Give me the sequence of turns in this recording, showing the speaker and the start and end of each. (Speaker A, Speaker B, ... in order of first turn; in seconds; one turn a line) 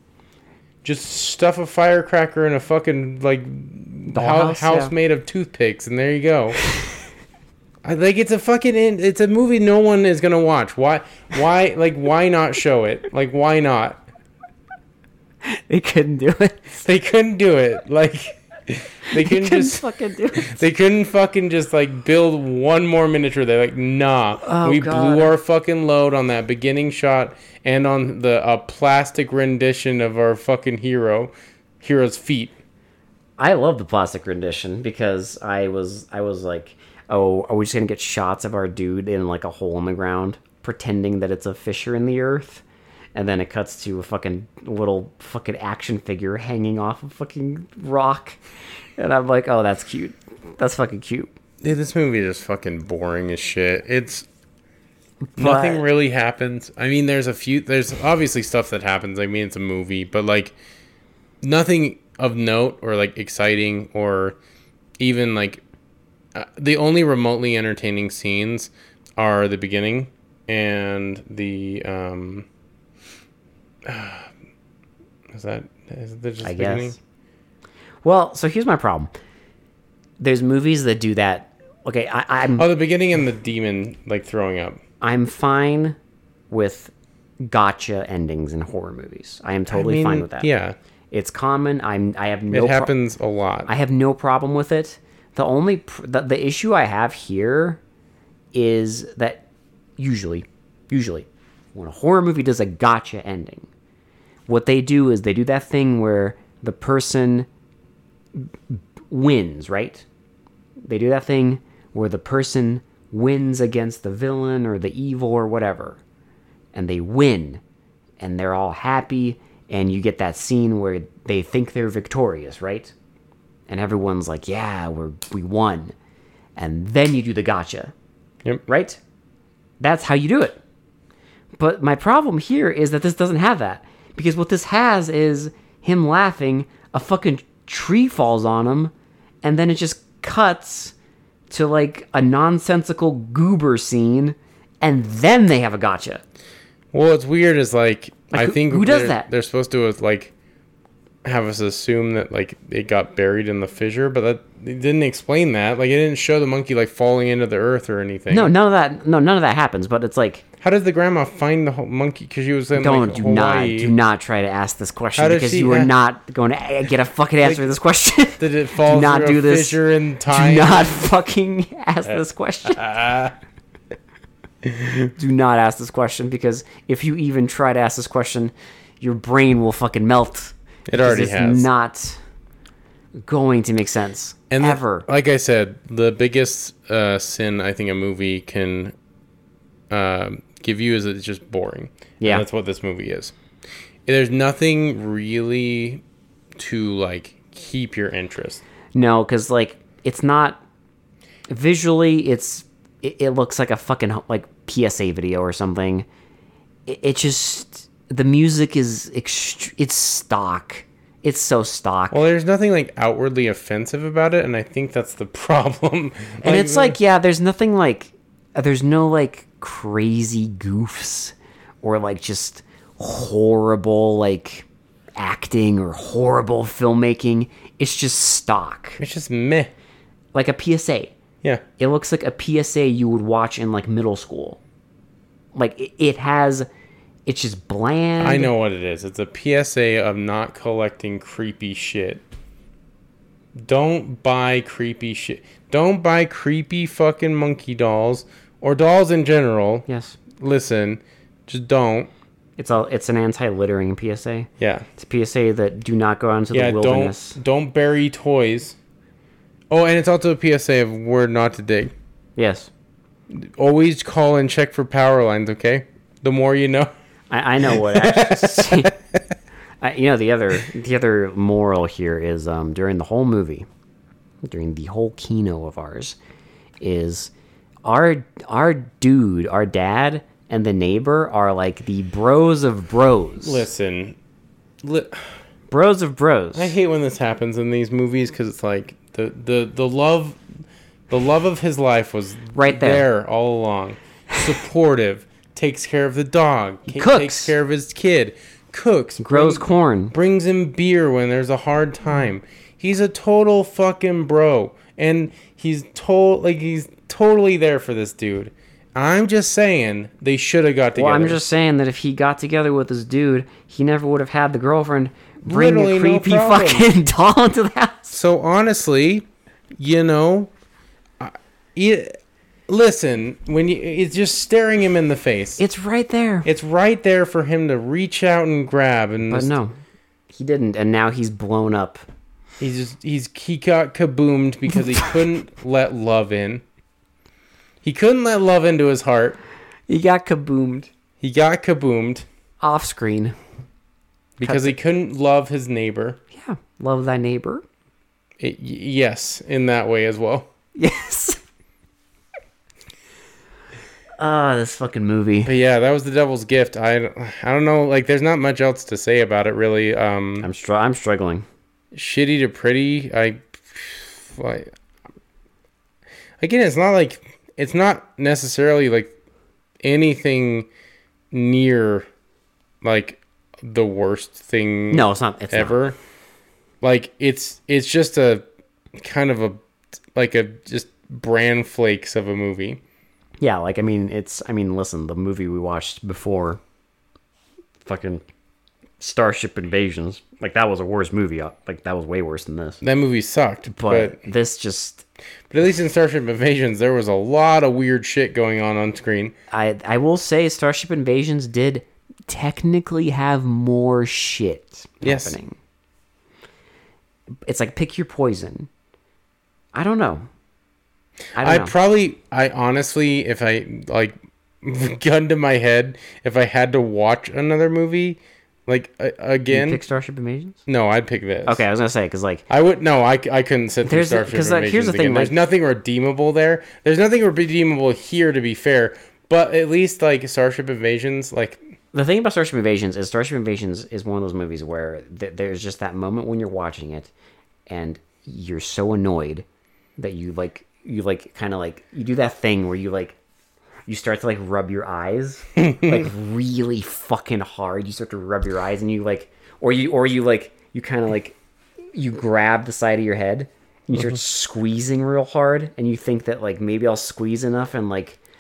Speaker A: 0.8-6.6
Speaker B: 4.1-4.9
Speaker A: 7.8-14.0
Speaker B: 15.5-16.8
Speaker A: 16.8-19.8
Speaker B: 19.1-20.6
Speaker A: 20.4-32.5
Speaker B: 24.4-25.3
Speaker B: 33.4-42.6
Speaker B: 43.1-48.4
Speaker B: 49.0-51.3
Speaker A: 51.6-54.3
Speaker B: 55.2-55.8
Speaker A: 55.4-60.5
Speaker A: 61.4-64.4
Speaker A: 65.0-65.6
Speaker A: 66.3-72.5
Speaker A: 73.9-74.3
Speaker A: 75.3-77.0
Speaker B: 76.4-77.0
Speaker B: 78.0-79.1
Speaker B: 80.2-82.7
Speaker A: 82.6-84.8
Speaker B: 85.0-86.0
Speaker B: 86.5-90.5
Speaker A: 89.7-90.8
Speaker B: 91.1-92.9
Speaker A: 92.5-93.7
Speaker B: 93.7-97.8
Speaker B: 98.5-99.4
Speaker B: 100.0-103.7
Speaker B: 104.5-107.5
Speaker B: 108.3-110.0
Speaker B: 110.8-116.0
Speaker B: 116.7-117.6
Speaker B: 118.2-122.9
Speaker B: 123.7-125.9
Speaker B: 126.6-127.9
Speaker B: 128.7-129.0
Speaker B: 129.8-130.6
Speaker B: 131.6-138.9
Speaker B: 139.4-140.9
Speaker B: 141.5-146.2
Speaker A: 146.9-150.3
Speaker B: 148.3-149.3
Speaker A: 151.2-158.5
Speaker B: 158.3-160.4
Speaker A: 160.6-163.9
Speaker B: 162.8-169.8
Speaker A: 165.2-165.9
Speaker A: 168.4-171.1
Speaker B: 170.3-172.8
Speaker A: 172.1-173.3
Speaker A: 174.7-175.1
Speaker B: 175.2-182.2
Speaker A: 180.9-181.7
Speaker B: 183.2-185.1
Speaker A: 184.5-188.9
Speaker A: 189.9-193.3
Speaker B: 192.2-192.4
Speaker A: 194.1-196.0
Speaker A: 196.6-198.6
Speaker B: 198.9-200.6
Speaker B: 201.5-206.1
Speaker B: 206.9-212.2
Speaker A: 212.1-217.0
Speaker B: 216.4-229.0
Speaker A: 229.0-229.7
Speaker B: 230.3-231.1
Speaker B: 231.8-234.6
Speaker B: 235.5-236.7
Speaker B: 237.3-238.5
Speaker A: 238.2-242.2
Speaker A: 243.6-252.1
Speaker B: 249.9-250.2
Speaker B: 252.6-257.4
Speaker A: 254.6-254.9
Speaker A: 256.5-258.8
Speaker A: 259.7-261.9
Speaker B: 262.4-262.7
Speaker A: 263.3-266.9
Speaker B: 267.3-268.9
Speaker A: 267.6-269.2
Speaker B: 269.8-273.7
Speaker B: 274.5-276.2
Speaker B: 276.8-277.3
Speaker B: 277.8-283.6
Speaker A: 283.4-284.2
Speaker A: 284.8-285.2
Speaker B: 285.7-286.8
Speaker A: 286.6-290.4
Speaker A: 291.1-311.4
Speaker B: 292.5-293.1
Speaker B: 296.9-297.5
Speaker B: 299.2-300.1
Speaker B: 310.9-318.2
Speaker A: 315.4-316.9
Speaker A: 318.1-319.3
Speaker A: 319.8-320.5
Speaker A: 321.2-322.2
Speaker A: 322.7-325.6
Speaker B: 325.6-326.5
Speaker A: 326.4-329.5
Speaker B: 329.3-329.8
Speaker B: 330.3-332.0
Speaker A: 332.6-336.6
Speaker A: 337.8-339.4
Speaker B: 339.9-340.9
Speaker A: 341.2-342.3
Speaker B: 342.6-343.4
Speaker A: 344.4-346.2
Speaker B: 344.4-344.7
Speaker B: 346.3-347.6
Speaker A: 348.4-350.5
Speaker B: 350.8-351.4
Speaker B: 354.2-355.5
Speaker A: 355.4-360.5
Speaker B: 360.4-361.5
Speaker A: 361.9-364.7
Speaker A: 366.4-369.1
Speaker A: 369.8-370.7
Speaker A: 371.3-372.1
Speaker A: 372.8-376.0
Speaker B: 374.9-375.7
Speaker A: 376.8-378.4
Speaker A: 378.9-379.6
Speaker A: 380.2-382.8
Speaker B: 383.4-386.6
Speaker B: 387.8-388.2
Speaker B: 389.0-392.8
Speaker A: 392.8-394.3
Speaker B: 393.7-395.1
Speaker A: 395.5-399.3
Speaker B: 399.5-405.6
Speaker A: 405.0-405.4
Speaker B: 407.4-408.7
Speaker B: 409.7-410.2
Speaker B: 411.4-411.7
Speaker A: 411.4-419.8
Speaker B: 419.5-420.6
Speaker A: 420.7-421.6
Speaker B: 421.5-422.4
Speaker A: 422.5-431.6
Speaker B: 423.9-425.4
Speaker B: 431.9-437.1
Speaker B: 437.7-439.5
Speaker B: 440.0-443.2
Speaker B: 443.9-451.4
Speaker A: 445.6-445.9
Speaker B: 451.9-458.2